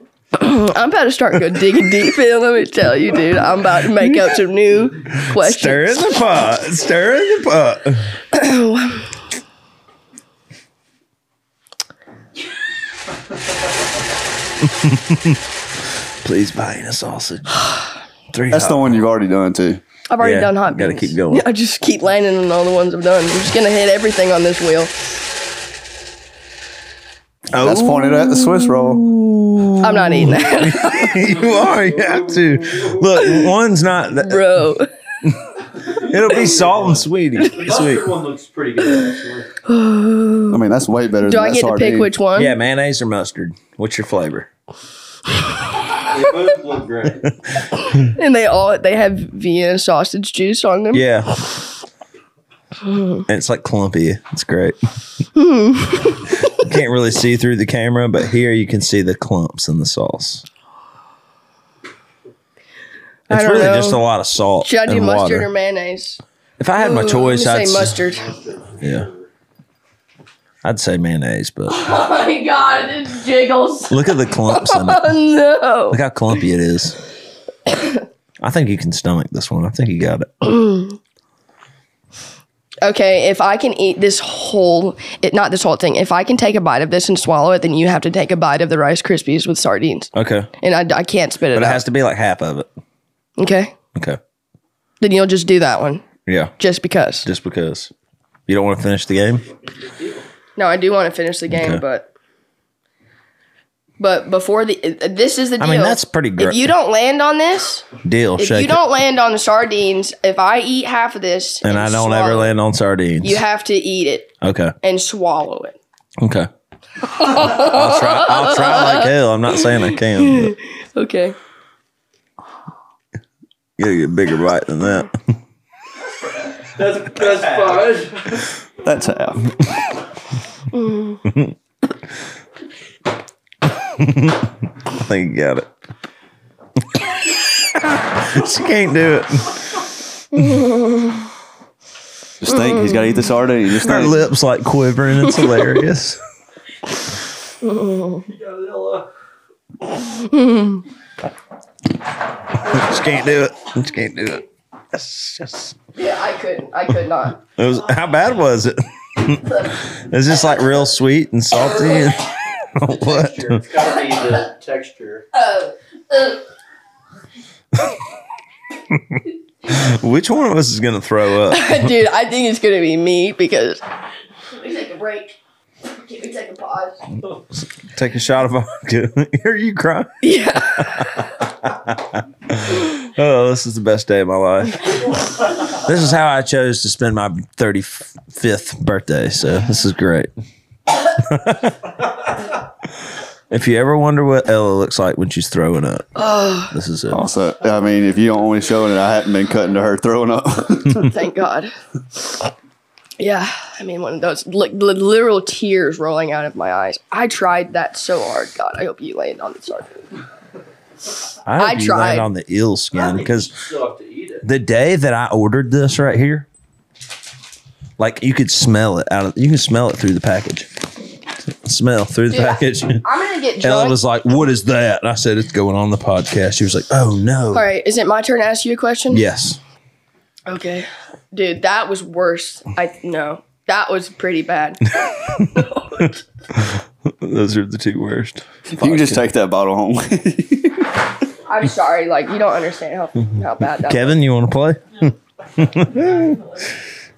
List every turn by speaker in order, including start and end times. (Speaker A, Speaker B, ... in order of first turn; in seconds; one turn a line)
Speaker A: 0.3-6.2
Speaker B: 4.0-4.3
Speaker B: 5.3-8.2
Speaker A: 8.3-9.1
Speaker B: 14.7-15.4
Speaker B: 16.2-17.7
Speaker B: 18.3-19.0
Speaker C: 18.5-19.8
Speaker A: 20.1-24.9
Speaker B: 20.2-21.5
Speaker B: 27.5-34.5
Speaker C: 27.6-29.0
Speaker A: 29.8-31.1
Speaker D: 31.1-33.0
Speaker A: 33.2-33.5
Speaker A: 34.1-34.9
Speaker D: 35.8-39.5
Speaker B: 35.9-38.1
Speaker A: 39.7-40.6
Speaker C: 40.5-42.1
Speaker A: 41.2-42.5
Speaker B: 42.4-44.5
Speaker D: 46.0-47.3
Speaker A: 47.9-51.0
Speaker B: 50.9-51.3
Speaker A: 52.9-53.2
Speaker B: 53.3-54.8
Speaker A: 55.4-56.4
Speaker B: 56.5-60.5
Speaker A: 63.3-64.0
Speaker B: 63.3-65.5
Speaker A: 64.6-66.2
Speaker B: 66.6-68.0
Speaker A: 66.8-68.3
Speaker D: 68.0-69.3
Speaker B: 68.8-69.1
Speaker B: 70.6-71.8
Speaker A: 71.7-76.0
Speaker B: 73.9-75.1
Speaker B: 75.9-77.0
Speaker B: 78.4-80.5
Speaker A: 80.5-81.0
Speaker A: 82.8-91.8
Speaker B: 90.2-90.5
Speaker B: 91.5-92.7
Speaker A: 93.4-93.8
Speaker A: 95.0-96.0
Speaker B: 96.3-96.5
Speaker A: 96.6-97.3
Speaker B: 97.2-97.9
Speaker B: 98.5-99.4
Speaker D: 99.8-100.2
Speaker A: 100.6-102.1
Speaker B: 101.5-101.8
Speaker A: 104.0-112.5
Speaker B: 105.6-106.7
Speaker B: 108.0-108.8
Speaker B: 111.6-113.4
Speaker A: 113.2-114.3
Speaker B: 114.4-114.8
Speaker A: 114.8-115.8
Speaker B: 116.2-116.5
Speaker A: 117.1-121.4
Speaker B: 117.3-120.5
Speaker B: 123.8-125.2
Speaker D: 126.7-128.5
Speaker C: 128.8-129.5
Speaker A: 130.7-131.2
Speaker B: 131.3-131.5
Speaker B: 134.0-135.7
Speaker B: 137.7-139.6
Speaker A: 140.3-141.2
Speaker C: 142.4-144.2
Speaker A: 142.5-143.2
Speaker B: 143.8-146.2
Speaker A: 147.6-148.3
Speaker D: 148.3-149.1
Speaker A: 150.1-150.8
Speaker B: 152.6-155.8
Speaker A: 155.9-157.4
Speaker B: 157.6-163.6
Speaker D: 162.9-165.3
Speaker A: 165.3-166.4
Speaker B: 168.9-171.9
Speaker A: 171.5-173.8
Speaker A: 174.5-177.0
Speaker B: 177.8-185.0
Speaker A: 180.2-181.3
Speaker B: 185.7-190.3
Speaker B: 191.0-191.9
Speaker B: 193.5-196.1
Speaker A: 196.2-196.7
Speaker B: 196.7-197.2
Speaker C: 197.1-201.1
Speaker A: 201.1-201.7
Speaker A: 203.2-210.0
Speaker B: 211.5-213.5
Speaker A: 211.6-212.3
Speaker D: 212.9-214.5
Speaker B: 214.4-216.5
Speaker B: 218.0-220.7
Speaker B: 221.6-223.1
Speaker A: 222.3-224.0
Speaker B: 223.6-227.7
Speaker A: 227.5-229.2
Speaker B: 229.1-229.6
Speaker A: 230.5-234.9
Speaker B: 235.3-236.0
Speaker A: 235.4-236.2
Speaker B: 236.5-239.3
Speaker C: 238.7-241.0
Speaker A: 241.5-244.2
Speaker B: 243.8-246.4